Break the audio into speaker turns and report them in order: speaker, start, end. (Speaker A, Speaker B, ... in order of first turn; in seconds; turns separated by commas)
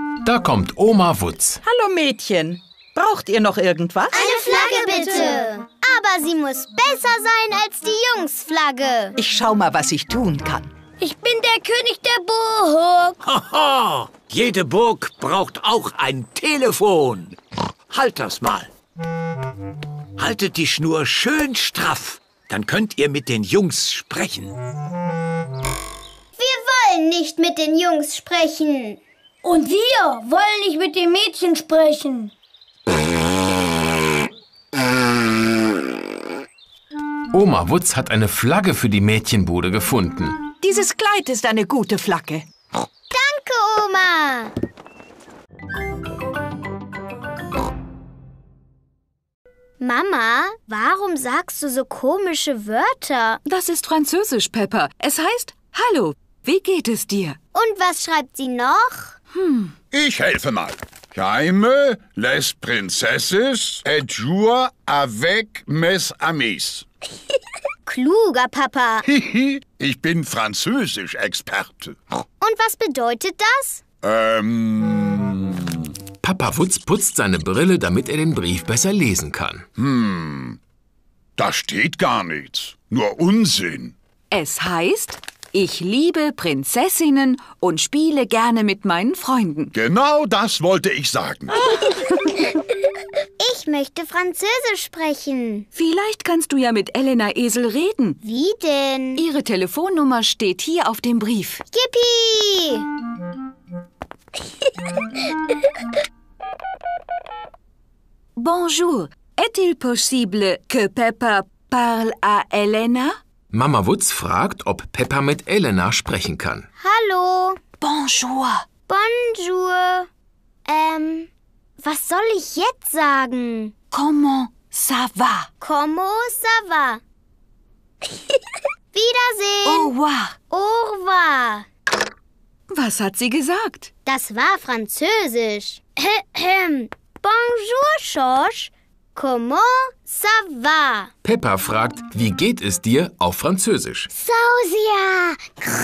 Speaker A: 0.2-1.6, Speaker B: 1.6-4.2, Speaker C: 4.1-9.2, Speaker D: 4.2-5.4, Speaker B: 9.2-10.7, Speaker D: 11.0-13.2, Speaker E: 13.2-17.4, Speaker E: 17.9-18.7, Speaker E: 20.2-24.6, Speaker C: 26.4-29.0, Speaker D: 29.4-32.3, Speaker A: 37.3-40.4, Speaker B: 40.6-42.5, Speaker C: 43.1-44.5, Speaker C: 49.8-53.4, Speaker F: 53.5-57.4, Speaker C: 57.5-59.2, Speaker F: 59.3-59.7, Speaker G: 59.9-66.9, Speaker C: 67.9-69.0, Speaker G: 69.0-72.0, Speaker C: 72.4-73.8, Speaker G: 74.0-75.9, Speaker A: 76.2-79.7, Speaker G: 79.8-80.6, Speaker G: 81.4-84.0, Speaker F: 84.3-89.7, Speaker G: 89.7-91.6, Speaker C: 93.4-95.7, Speaker F: 95.7-98.2, Speaker C: 98.2-99.2, Speaker F: 99.2-101.6, Speaker C: 101.7-102.8, Speaker F: 108.4-113.2, Speaker A: 113.5-116.7, Speaker C: 116.8-117.6, Speaker F: 117.8-118.7, Speaker C: 118.9-120.1, Speaker C: 120.7-123.7, Speaker F: 123.9-125.5, Speaker C: 125.6-127.0, Speaker C: 128.9-129.9, Speaker F: 129.7-130.4, Speaker C: 130.5-131.7, Speaker F: 132.7-133.9, Speaker C: 134.1-141.1, Speaker A: 141.2-144.1, Speaker C: 144.1-145.1